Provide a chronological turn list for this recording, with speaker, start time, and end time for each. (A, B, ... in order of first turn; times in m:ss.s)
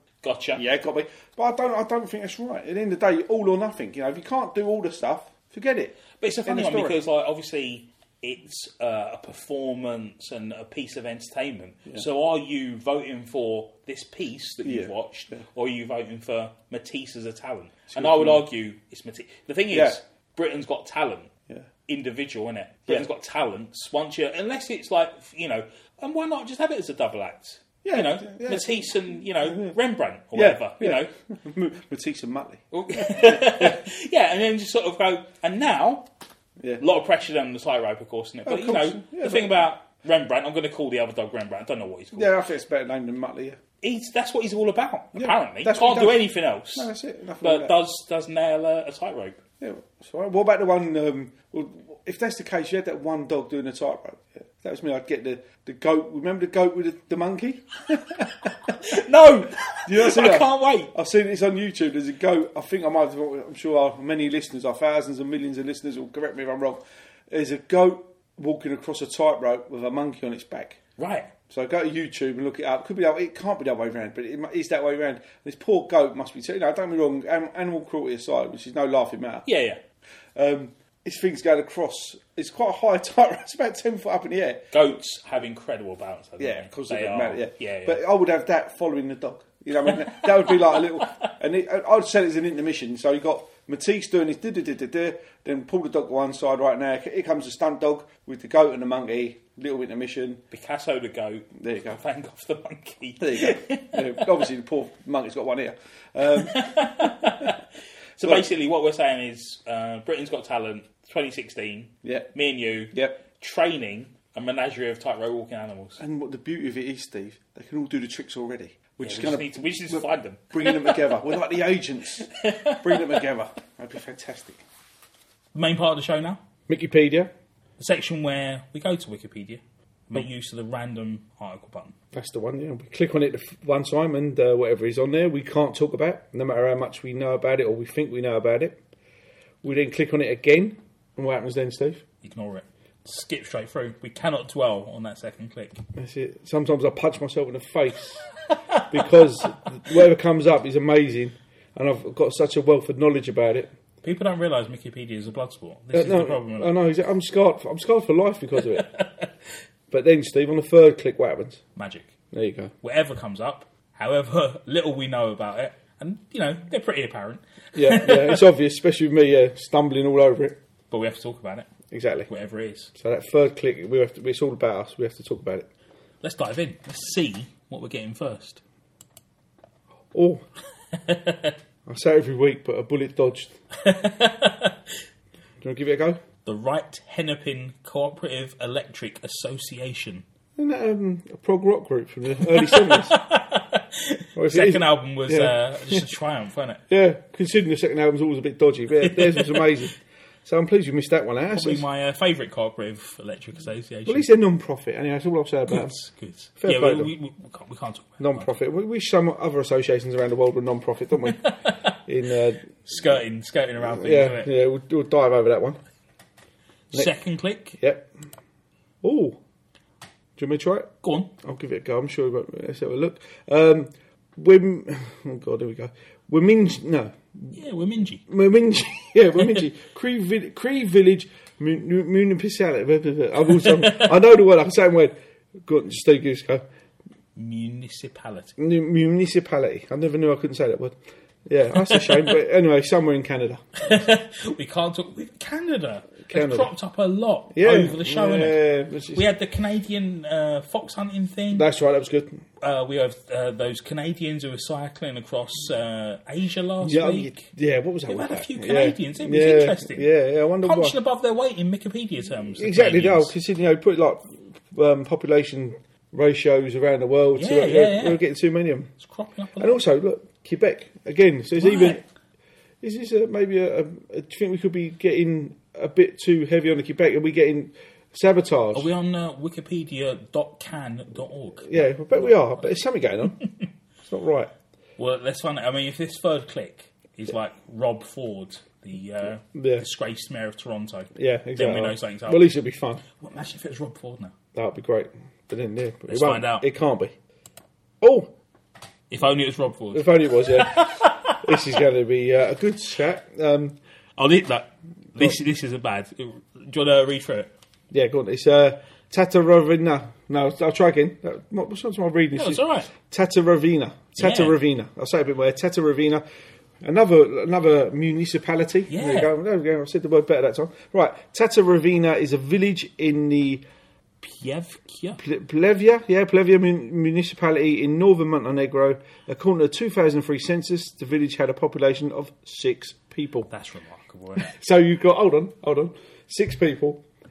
0:00.2-0:00.6 A
0:00.6-0:07.0 B
0:06.2-0:21.3 A
0:14.6-0:15.4 B
0:17.9-0:18.4 B
0:19.7-0:20.0 B
0:21.9-0:31.1 A
0:27.8-0:29.8 B
0:30.3-0:33.8 B
0:32.7-0:36.1 A
0:36.8-0:42.3 A
0:38.5-0:39.6 B
0:42.1-0:43.6 B
0:43.8-0:46.9 A
0:45.2-0:47.8 B
0:47.4-0:49.4 A
0:49.6-1:10.8 B
0:58.6-1:00.9 A
1:11.0-1:11.3 A
1:11.5-1:19.4 B
1:19.5-1:19.8 A
1:20.4-1:24.6 B
1:24.7-1:28.0 A
1:26.4-1:40.4 B
1:29.8-1:31.3 A
1:40.5-1:44.4 A
1:41.6-1:42.0 B
1:43.2-1:47.5 B
1:46.3-1:47.6 A
1:48.2-1:56.0 A
1:52.0-1:52.3 B
1:52.9-1:53.2 B
1:56.0-2:02.3 B
1:59.0-2:01.3 A
2:02.2-2:03.2 A
2:02.8-2:04.6 B
2:05.5-2:06.4 A
2:06.7-2:07.3 B
2:07.8-2:12.0 A
2:12.1-2:18.8 B
2:19.6-2:22.0 B
2:22.2-2:25.8 A
2:26.0-2:28.3 B
2:28.6-2:28.9 A
2:28.9-2:33.7 B
2:34.0-2:36.7 A
2:35.9-2:38.9 B
2:38.7-2:39.3 A
2:39.9-2:41.6 B
2:41.8-2:42.2 A
2:42.3-2:42.7 B
2:42.8-2:48.5 A
2:47.8-2:50.6 B
2:50.9-2:51.7 A
2:51.9-2:52.3 B
2:52.3-2:52.9 A
2:53.0-2:55.7 B
2:56.2-2:58.6 A
3:00.1-3:00.4 B
3:00.9-3:01.6 A
3:01.9-3:03.5 B
3:03.8-3:05.0 A
3:05.6-3:06.2 B
3:06.5-3:10.2 A
3:10.6-3:13.2 B
3:12.5-3:16.8 A
3:14.4-3:16.0 B
3:16.9-3:21.9 B
3:19.0-3:19.7 A
3:21.5-3:24.3 A
3:24.1-3:26.0 B
3:25.7-3:28.5 A
3:26.6-3:27.1 B
3:28.2-3:31.5 B
3:31.2-3:32.0 A
3:32.1-3:32.7 B
3:32.8-3:34.5 A
3:33.8-3:35.8 B
3:36.9-3:37.8 A
3:37.8-3:38.1 B
3:39.0-3:39.4 B
3:40.4-3:40.9 B
3:41.0-3:41.3 A
3:41.4-3:47.6 B
3:47.5-3:48.3 A
3:48.3-3:56.6 B
3:49.4-3:49.6 A
3:53.5-3:54.2 A
3:57.4-3:58.6 A
3:58.6-4:03.6 B
4:01.8-4:02.2 A
4:03.8-4:08.6 A
4:06.3-4:06.7 B
4:07.5-4:09.3 B
4:09.1-4:11.7 A
4:11.5-4:12.4 B
4:12.6-4:17.5 A
4:16.8-4:21.0 B
4:18.1-4:20.1 A
4:20.6-4:23.3 A
4:22.6-4:28.9 B
4:27.4-4:28.2 A
4:29.0-4:29.8 A
4:29.6-4:32.0 B
4:31.6-4:32.0 A
4:32.8-4:38.9 B
4:38.7-4:42.7 A
4:41.6-4:43.4 B
4:44.0-4:44.5 B
4:45.0-4:52.5 A
4:49.5-4:49.9 B
4:51.2-4:53.0 B
4:53.1-4:54.3 A
4:54.6-4:57.1 B
4:56.1-4:56.7 A
4:58.0-4:58.3 B
4:59.1-5:01.7 A
4:59.9-5:03.8 B
5:04.2-5:07.5 A
5:07.9-5:16.2 B
5:12.4-5:12.9 A
5:14.2-5:14.6 A
5:16.8-5:23.6 B
5:18.9-5:19.3 A
5:24.2-5:25.2 A
5:25.2-5:33.5 B
5:33.5-5:34.6 A
5:34.4-5:37.0 B